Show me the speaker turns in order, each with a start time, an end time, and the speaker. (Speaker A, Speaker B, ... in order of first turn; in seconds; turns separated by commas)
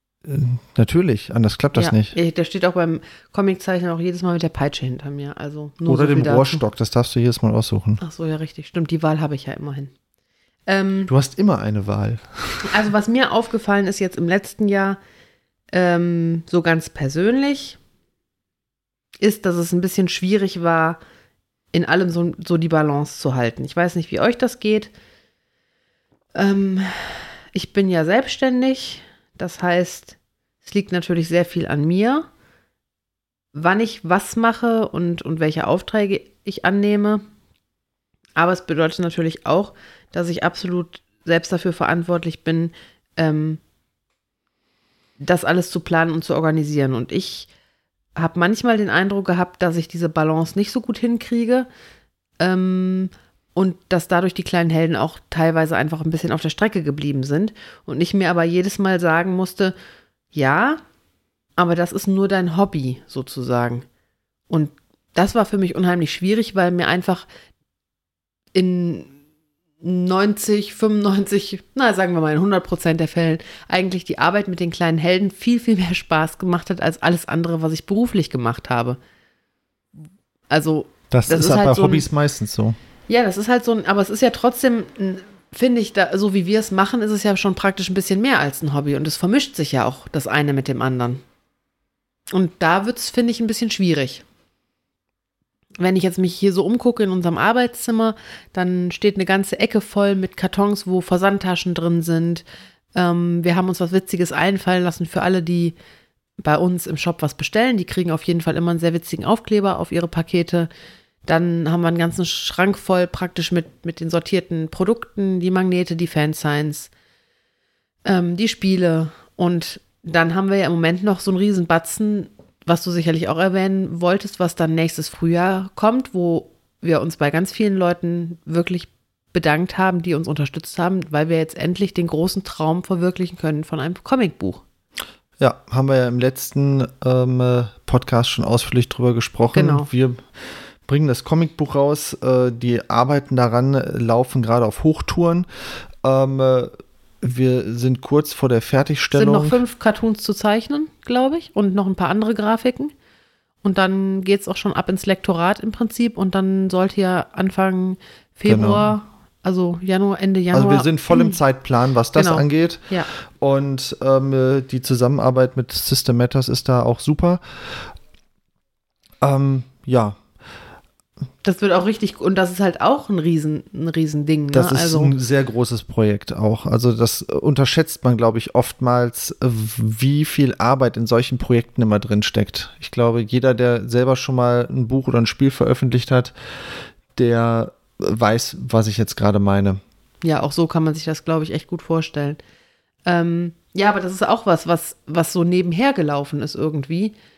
Speaker A: 0.2-2.1, Speaker B: 1.7-6.6, Speaker A: 5.8-8.0, Speaker B: 8.0-9.9, Speaker B: 10.7-11.1, Speaker A: 11.1-12.7, Speaker B: 12.6-15.0, Speaker B: 15.7-17.8, Speaker B: 19.2-21.0, Speaker B: 21.7-24.9, Speaker B: 26.3-32.2, Speaker B: 33.5-37.2, Speaker B: 38.4-43.6, Speaker B: 45.2-47.5, Speaker B: 48.1-51.7, Speaker B: 52.4-59.7, Speaker B: 60.3-60.8, Speaker B: 61.6-63.9, Speaker B: 64.5-67.2, Speaker B: 68.5-69.1, Speaker B: 69.8-79.0, Speaker B: 80.5-82.1, Speaker A: 81.1-82.8, Speaker B: 83.1-91.2, Speaker B: 92.3-94.2, Speaker B: 95.8-105.7, Speaker B: 106.4-110.7, Speaker B: 111.3-116.9, Speaker B: 118.0-134.6, Speaker A: 135.4-140.2, Speaker B: 139.5-139.9, Speaker A: 140.8-145.5, Speaker A: 146.0-149.6, Speaker B: 149.1-152.9, Speaker B: 153.6-161.4, Speaker A: 158.5-158.9, Speaker A: 160.5-162.8, Speaker B: 162.1-163.1, Speaker A: 163.4-167.8, Speaker A: 169.2-170.2, Speaker B: 171.4-175.1, Speaker A: 174.5-186.3, Speaker A: 187.1-189.8, Speaker B: 190.2-192.4, Speaker B: 193.1-197.2